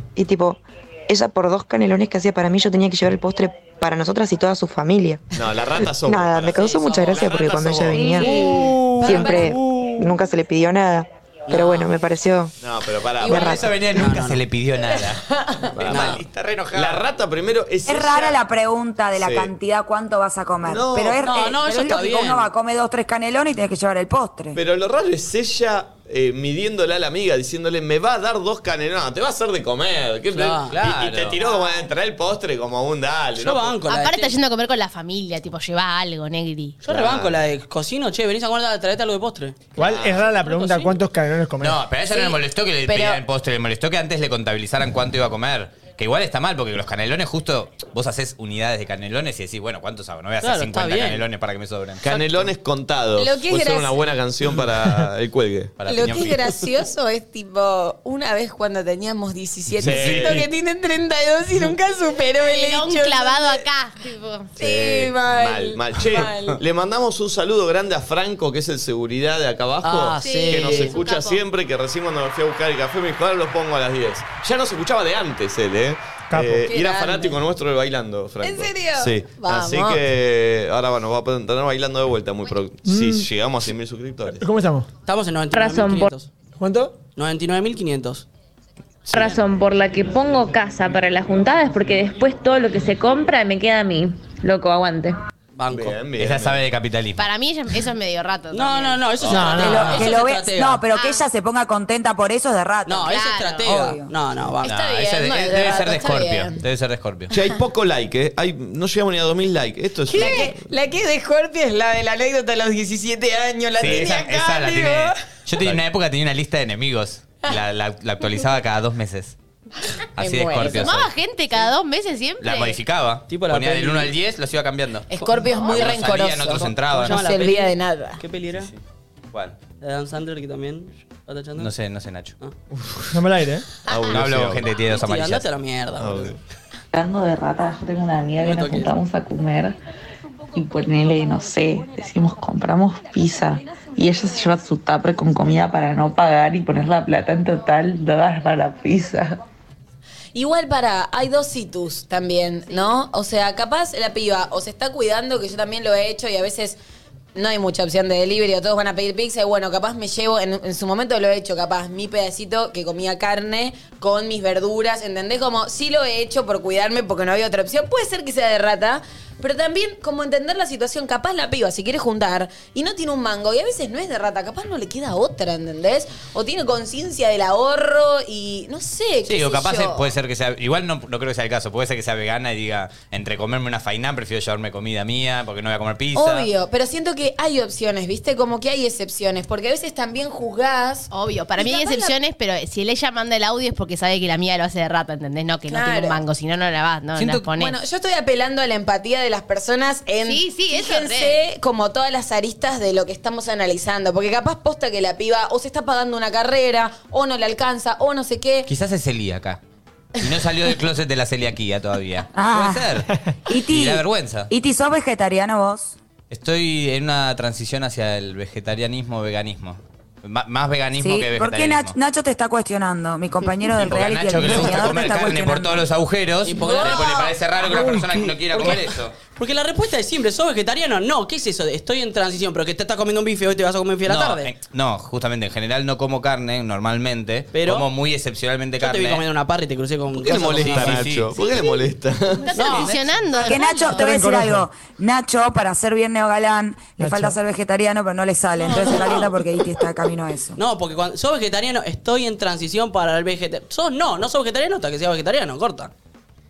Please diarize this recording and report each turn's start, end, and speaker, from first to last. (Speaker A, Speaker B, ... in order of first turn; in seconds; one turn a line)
Speaker A: 0.2-5.2
Speaker B: 5.3-8.1
Speaker A: 6.0-12.5
Speaker C: 6.7-7.2
Speaker D: 7.9-9.5
Speaker E: 8.0-10.1
Speaker C: 11.5-11.9
Speaker B: 12.6-13.7
Speaker A: 13.2-13.7
Speaker F: 13.3-15.2
Speaker C: 13.9-14.4
Speaker D: 15.0-15.7
Speaker B: 15.7-16.2
Speaker F: 15.9-17.0
Speaker C: 15.9-16.2
Speaker B: 16.7-18.4
Speaker G: 17.9-24.6
Speaker B: 19.2-19.5
Speaker B: 20.6-21.4
Speaker C: 21.2-22.5
Speaker B: 24.5-33.8
Speaker C: 30.3-30.8
Speaker F: 30.8-31.4
Speaker C: 33.4-34.4
Speaker H: 33.9-36.8
Speaker C: 36.8-41.0
Speaker B: 36.9-37.4
Speaker E: 39.8-41.8
Speaker B: 39.8-40.2
Speaker F: 41.6-52.0
Speaker D: 42.1-43.2
Speaker C: 50.4-51.3
Speaker B: 52.0-55.8
Speaker D: 53.2-54.0
Speaker F: 55.8-56.5
Speaker D: 55.9-63.6
Speaker B: 59.8-60.5
Speaker F: 59.8-60.4
Speaker H: 62.4-64.5
Speaker D: 64.6-66.6
Speaker B: 64.6-84.4
Speaker C: 69.8-71.0
Speaker H: 70.2-71.4
Speaker E: 76.3-76.7
Speaker D: 76.7-77.4
Speaker D: 78.4-80.0
Speaker E: 82.9-83.3
Speaker E: 84.4-84.9
Speaker C: 85.0-86.3
Speaker I: 85.5-86.1
Speaker E: 86.6-87.0
Speaker C: 87.1-88.3
Speaker I: 89.1-95.2
Speaker C: 89.1-89.4
Speaker C: 95.5-96.0
Speaker B: 95.7-96.7
Speaker F: 96.2-97.2
Speaker H: 97.2-99.4
Speaker C: 98.5-100.8
Speaker E: 99.3-99.9
Speaker G: 99.6-104.1
Speaker H: 100.9-101.2
Speaker C: 102.9-104.8
Speaker H: 103.0-103.7
Speaker D: 104.6-106.6
Speaker F: 104.6-107.3
Speaker B: 107.3-110.6
Speaker D: 110.1-115.2
Speaker F: 113.8-119.3
Speaker B: 113.8-114.1
Speaker D: 120.2-120.9
Speaker F: 120.2-121.1
Speaker H: 120.6-122.8
Speaker F: 122.4-125.1
Speaker C: 123.3-124.2
Speaker D: 125.1-128.2
Speaker C: 125.2-126.0
Speaker F: 125.6-127.2
Speaker C: 126.6-128.7
Speaker F: 129.3-129.6
Speaker C: 129.8-131.7
Speaker F: 131.6-132.4
Speaker B: 132.7-133.2
Speaker E: 133.1-133.7
Speaker B: 133.8-134.7
Speaker F: 134.1-135.4
Speaker C: 134.8-136.3
Speaker B: 136.0-136.4
Speaker J: 136.9-139.8
Speaker C: 138.4-138.9
Speaker J: 140.5-149.4
Speaker D: 150.3-156.8
Speaker D: 157.3-180.1
Speaker F: 179.2-186.5
Speaker D: 186.1-192.1
Speaker H: 191.1-197.8
Speaker D: 195.7-196.2
Speaker F: 197.2-197.5
Speaker D: 197.6-208.7
Speaker H: 200.2-201.4
Speaker F: 208.7-209.6
Speaker F: 210.2-213.1
Speaker G: 212.3-216.0
Speaker F: 213.6-214.5
Speaker F: 216.3-221.9
Speaker G: 221.0-225.9
Speaker F: 223.8-229.2
Speaker C: 226.4-234.5
Speaker D: 226.6-227.3
Speaker F: 234.1-239.2
Speaker C: 237.5-237.9
Speaker C: 238.8-241.1
Speaker B: 240.2-242.8
Speaker F: 240.5-241.3
Speaker D: 241.4-241.7
Speaker H: 242.5-244.1
Speaker C: 242.6-243.0
Speaker G: 243.4-250.6
Speaker E: 244.0-244.7
Speaker E: 247.0-247.3
Speaker C: 248.7-249.3
Speaker C: 250.6-255.9